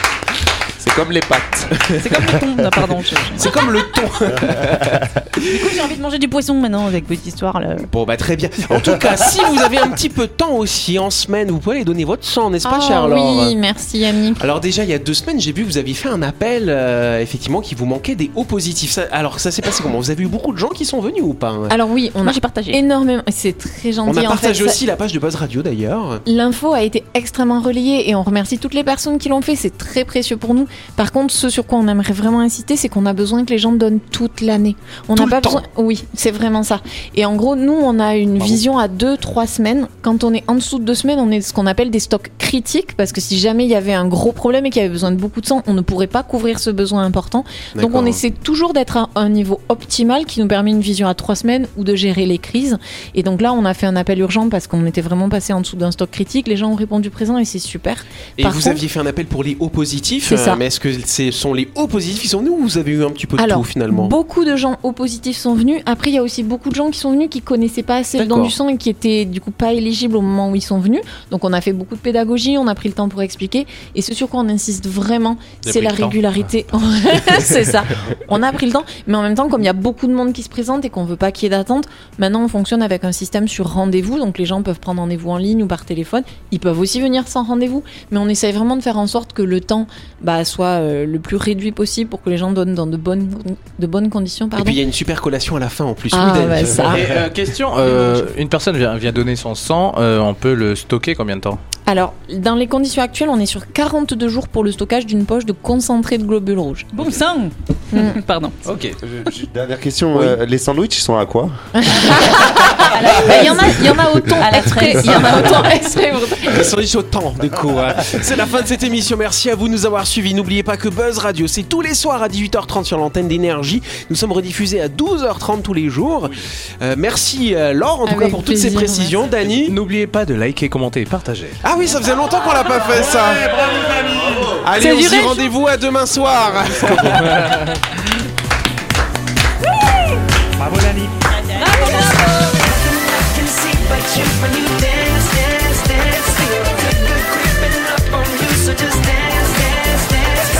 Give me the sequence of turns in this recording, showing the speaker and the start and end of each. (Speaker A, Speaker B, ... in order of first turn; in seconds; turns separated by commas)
Speaker A: 0.8-1.9, Speaker B: 2.0-3.5, Speaker C: 3.2-5.8, Speaker B: 5.5-7.9, Speaker C: 7.9-13.6, Speaker D: 12.6-14.4, Speaker C: 14.4-21.7, Speaker D: 21.7-24.8, Speaker B: 22.2-22.8, Speaker C: 24.1-26.2, Speaker D: 26.3-58.8, Speaker C: 35.1-35.6, Speaker C: 47.8-48.2, Speaker C: 58.4-64.1, Speaker D: 60.3-60.6, Speaker D: 63.4-94.8, Speaker C: 68.2-68.5, Speaker E: 75.6-76.4, Speaker C: 94.5-97.0, Speaker D: 96.1-97.0, Speaker E: 96.7-101.6, Speaker D: 97.8-98.2, Speaker D: 101.8-106.9, Speaker B: 106.9-108.7, Speaker D: 107.9-108.2, Speaker E: 108.7-109.0, Speaker A: 109.0-111.5, Speaker D: 111.8-116.7, Speaker B: 112.8-113.8, Speaker B: 114.4-115.7, Speaker C: 116.5-129.8, Speaker D: 128.1-129.2, Speaker E: 129.5-131.6, Speaker C: 131.6-133.9, Speaker F: 132.9-134.6, Speaker C: 134.6-137.5, Speaker B: 134.7-135.5, Speaker E: 137.2-137.7, Speaker F: 140.6-141.1, Speaker B: 141.6-142.5